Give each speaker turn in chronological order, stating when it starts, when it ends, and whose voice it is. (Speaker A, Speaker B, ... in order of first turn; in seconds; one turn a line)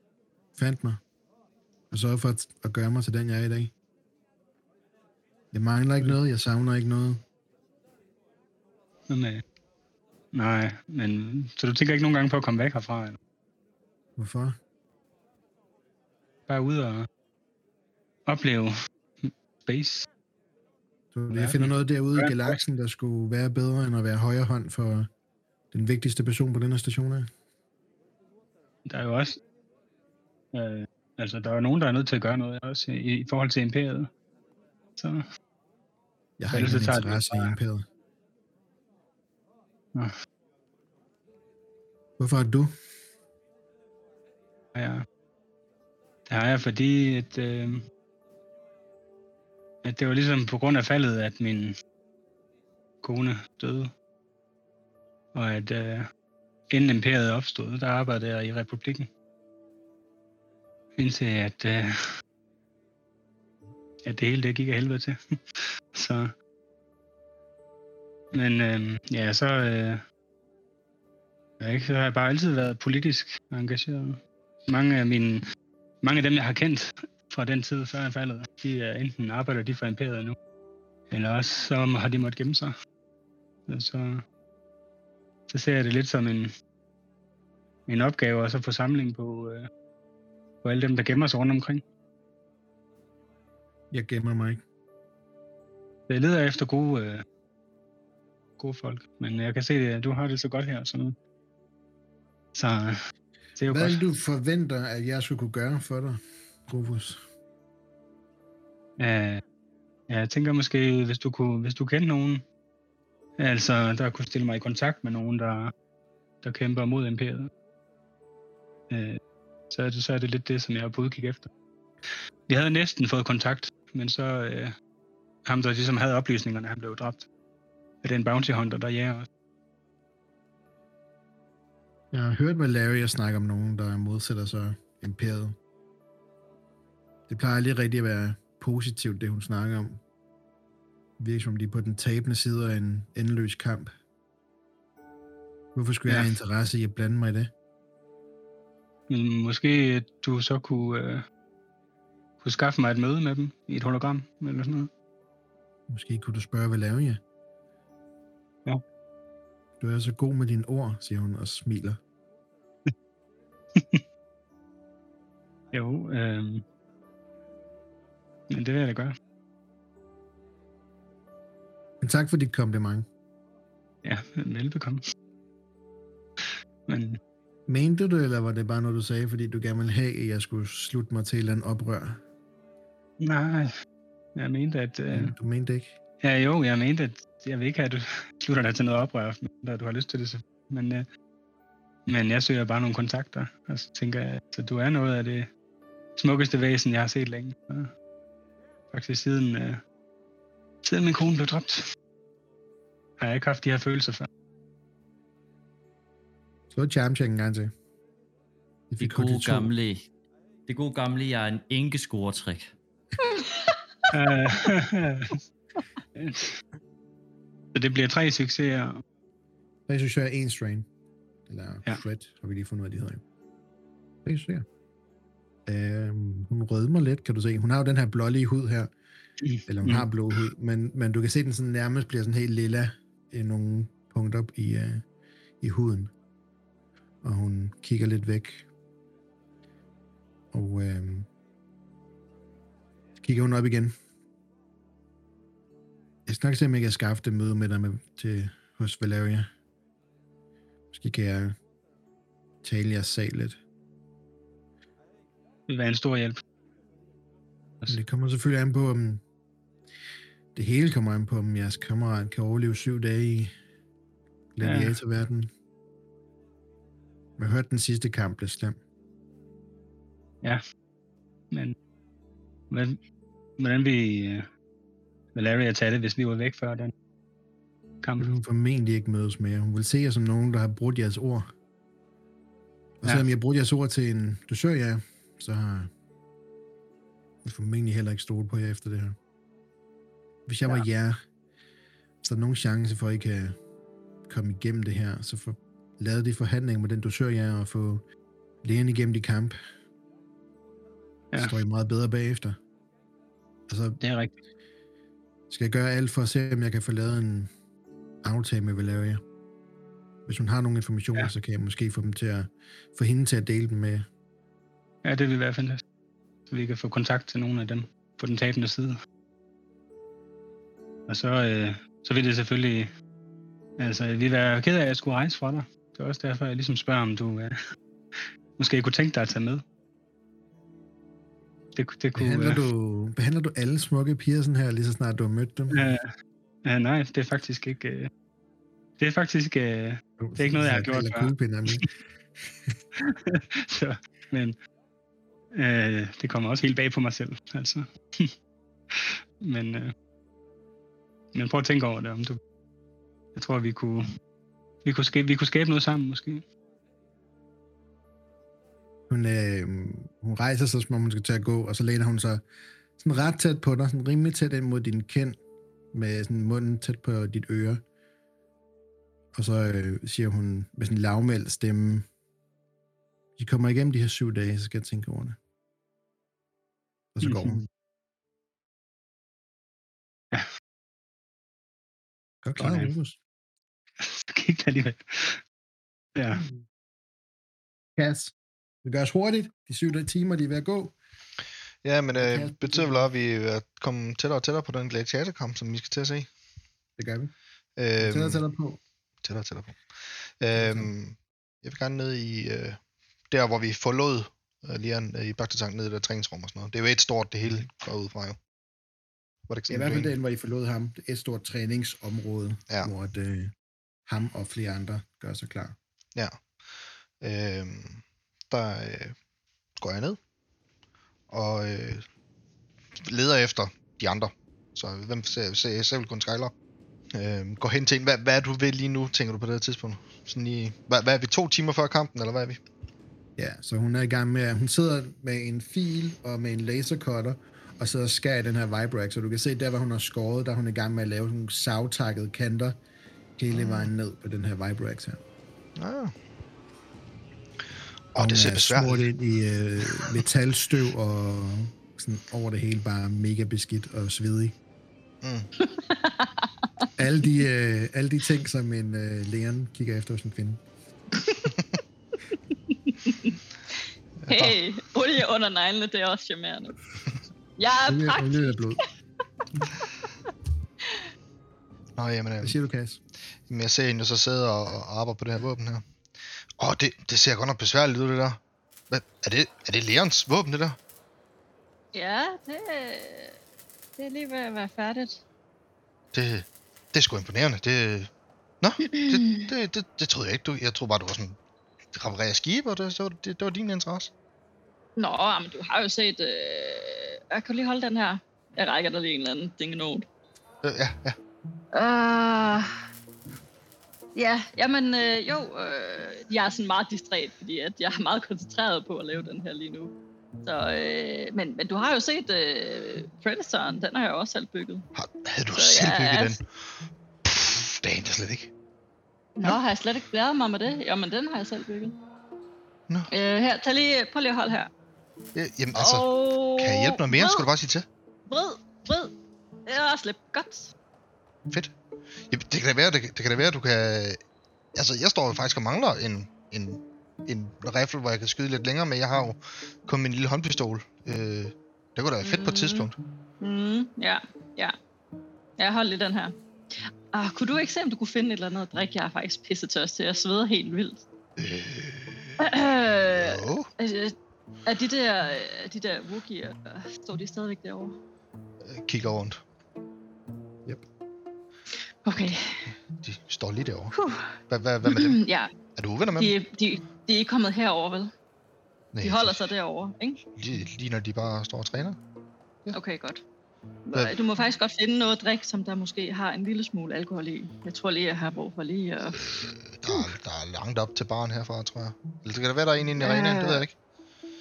Speaker A: 0.6-1.0
Speaker A: 1.9-3.7
Speaker A: 5.5-7.2
Speaker B: 9.1-9.4
Speaker B: 10.3-13.2
Speaker A: 14.2-14.6
Speaker B: 16.5-17.1
Speaker B: 18.3-18.7
Speaker B: 19.3-20.1
Speaker A: 21.1-25.1
Speaker B: 21.3-22.6
Speaker A: 25.7-27.3
Speaker B: 28.9-29.4
Speaker B: 30.5-34.1
Speaker B: 35.0-35.2
Speaker A: 36.4-37.9
Speaker B: 36.5-37.5
Speaker A: 42.2-42.7
Speaker B: 44.8-45.0
Speaker B: 46.3-47.9
Speaker B: 49.8-51.8
Speaker B: 53.0-53.9
Speaker B: 55.3-56.1
Speaker B: 56.7-59.1
Speaker B: 61.0-61.9
Speaker B: 64.0-65.2
Speaker B: 66.0-66.3
Speaker B: 68.3-70.0
Speaker B: 71.6-75.5
Speaker B: 76.0-80.4
Speaker B: 81.1-82.7
Speaker B: 83.7-84.2
Speaker B: 85.5-86.5
Speaker B: 87.9-89.7
Speaker B: 90.6-91.8
Speaker A: 93.9-94.6
Speaker B: 96.1-97.2
Speaker B: 98.6-101.2
Speaker B: 102.5-103.0
Speaker B: 103.6-104.0
Speaker A: 103.7-107.2
Speaker B: 109.0-109.4
Speaker B: 110.1-112.4
Speaker B: 113.4-115.7
Speaker B: 116.4-117.5
Speaker B: 118.9-119.2
Speaker B: 119.7-121.5
Speaker B: 122.5-124.7
Speaker B: 125.5-127.3
Speaker B: 128.0-129.3
Speaker A: 132.1-135.6
Speaker A: 137.3-140.0
Speaker A: 141.2-143.9
Speaker A: 145.8-147.5
Speaker B: 146.1-146.3
Speaker B: 149.1-151.2
Speaker B: 152.4-154.9
Speaker A: 155.9-157.2
Speaker A: 159.8-162.0
Speaker B: 163.8-164.0
Speaker B: 165.7-166.7
Speaker B: 168.5-169.2
Speaker A: 172.0-173.1
Speaker B: 174.0-175.0
Speaker B: 176.9-177.2
Speaker A: 177.7-182.2
Speaker B: 183.2-183.7
Speaker B: 184.4-185.3
Speaker A: 185.1-186.0
Speaker B: 186.2-191.1
Speaker B: 192.1-195.5
Speaker B: 196.2-197.9
Speaker B: 198.9-199.8
Speaker B: 200.8-201.8
Speaker B: 203.2-204.3
Speaker A: 206.7-207.7
Speaker A: 208.9-209.7
Speaker C: 209.0-210.1
Speaker C: 210.7-212.7
Speaker D: 213.2-213.8
Speaker B: 214.1-215.4
Speaker B: 216.2-216.5
Speaker B: 217.7-219.0
Speaker A: 219.9-220.9
Speaker A: 221.5-223.2
Speaker A: 224.2-224.7
Speaker A: 225.7-228.9
Speaker B: 229.4-230.1
Speaker A: 229.7-235.0
Speaker A: 235.6-236.1
Speaker A: 237.2-238.7
Speaker A: 240.5-241.3
Speaker A: 243.2-243.9
Speaker A: 246.3-249.5
Speaker A: 250.9-251.6
Speaker A: 252.6-253.6
Speaker B: 255.7-256.4
Speaker A: 257.9-259.2
Speaker A: 260.6-263.5
Speaker A: 264.6-265.5
Speaker B: 264.6-265.0
Speaker A: 267.4-268.8
Speaker B: 272.7-273.0
Speaker B: 273.6-274.5
Speaker B: 275.4-276.9
Speaker B: 278.0-278.3
Speaker A: 278.2-281.5
Speaker A: 283.0-285.9
Speaker A: 287.4-289.2
Speaker A: 290.5-291.2
Speaker A: 292.2-293.6
Speaker A: 294.3-298.0
Speaker A: 298.6-299.6
Speaker A: 301.4-302.6
Speaker A: 303.7-304.0
Speaker B: 304.0-304.4
Speaker A: 305.5-307.5
Speaker A: 308.2-309.2
Speaker A: 310.3-314.1
Speaker B: 315.1-315.8
Speaker B: 316.5-319.0
Speaker B: 321.1-322.9
Speaker B: 323.8-327.6
Speaker B: 328.6-329.6
Speaker B: 331.8-332.6
Speaker A: 332.1-335.9
Speaker B: 335.7-336.1
Speaker B: 336.7-338.1
Speaker B: 339.0-341.9
Speaker A: 340.2-341.9
Speaker B: 343.1-344.6
Speaker B: 345.6-348.3
Speaker B: 348.9-349.9
Speaker B: 351.3-352.4
Speaker B: 353.4-354.1
Speaker B: 354.9-356.4
Speaker A: 359.1-362.4
Speaker A: 363.0-365.4
Speaker A: 365.9-367.8
Speaker A: 369.3-372.1
Speaker A: 373.4-375.4
Speaker A: 377.1-377.7
Speaker B: 377.2-377.6
Speaker A: 382.4-383.2
Speaker B: 382.6-382.9
Speaker B: 384.2-385.4
Speaker B: 386.2-386.4
Speaker A: 386.4-386.6
Speaker A: 388.0-388.3
Speaker A: 388.8-390.9
Speaker E: 391.8-396.3
Speaker A: 392.2-393.1
Speaker A: 397.0-397.3
Speaker E: 397.8-398.4
Speaker A: 398.0-398.8
Speaker E: 399.2-402.8
Speaker A: 400.6-400.9
Speaker E: 403.3-408.4
Speaker E: 409.5-410.1
Speaker A: 409.7-413.5
Speaker A: 414.1-415.8
Speaker E: 416.2-416.4
Speaker E: 417.2-419.2
Speaker E: 419.8-420.2
Speaker E: 421.3-422.1
Speaker E: 423.0-426.5
Speaker E: 427.1-432.6
Speaker A: 433.4-442.8
Speaker A: 443.4-445.2
Speaker E: 443.5-443.9
Speaker E: 445.8-446.1
Speaker E: 448.1-449.1
Speaker A: 448.2-454.6
Speaker E: 455.2-455.5
Speaker D: 455.6-456.5
Speaker A: 457.0-460.6
Speaker D: 462.7-463.4
Speaker E: 464.2-464.6
Speaker D: 464.3-466.8
Speaker D: 467.6-468.8
Speaker A: 467.8-468.8
Speaker E: 472.0-472.6
Speaker A: 472.4-473.0
Speaker E: 473.5-475.9
Speaker E: 476.6-480.8
Speaker D: 481.9-483.4
Speaker D: 484.0-485.2
Speaker E: 486.1-491.4
Speaker D: 488.9-489.4
Speaker E: 491.9-494.1
Speaker D: 495.0-500.1
Speaker E: 500.6-501.2
Speaker D: 501.7-502.8
Speaker D: 504.1-509.9
Speaker D: 510.4-514.9
Speaker E: 515.0-516.5
Speaker D: 515.5-516.4
Speaker E: 517.3-518.5
Speaker D: 519.4-522.0
Speaker D: 523.1-524.7
Speaker E: 525.4-526.1
Speaker D: 525.8-527.5
Speaker E: 526.6-527.9
Speaker D: 528.3-529.1
Speaker D: 529.7-530.7
Speaker E: 531.5-531.7
Speaker E: 532.3-534.2
Speaker E: 534.8-543.0
Speaker D: 542.2-542.9
Speaker D: 543.4-544.8
Speaker D: 545.6-551.0
Speaker E: 551.4-552.4
Speaker D: 552.4-554.1
Speaker E: 553.1-553.7
Speaker D: 554.7-558.0
Speaker E: 558.6-559.4
Speaker D: 562.0-562.7
Speaker E: 563.0-563.9
Speaker D: 563.9-565.5
Speaker E: 564.5-565.2
Speaker E: 565.8-566.3
Speaker D: 566.2-568.1
Speaker E: 568.9-569.5
Speaker D: 569.0-570.2
Speaker E: 570.4-572.0
Speaker D: 572.7-573.2
Speaker D: 573.9-580.1
Speaker E: 579.2-583.8
Speaker D: 583.0-583.6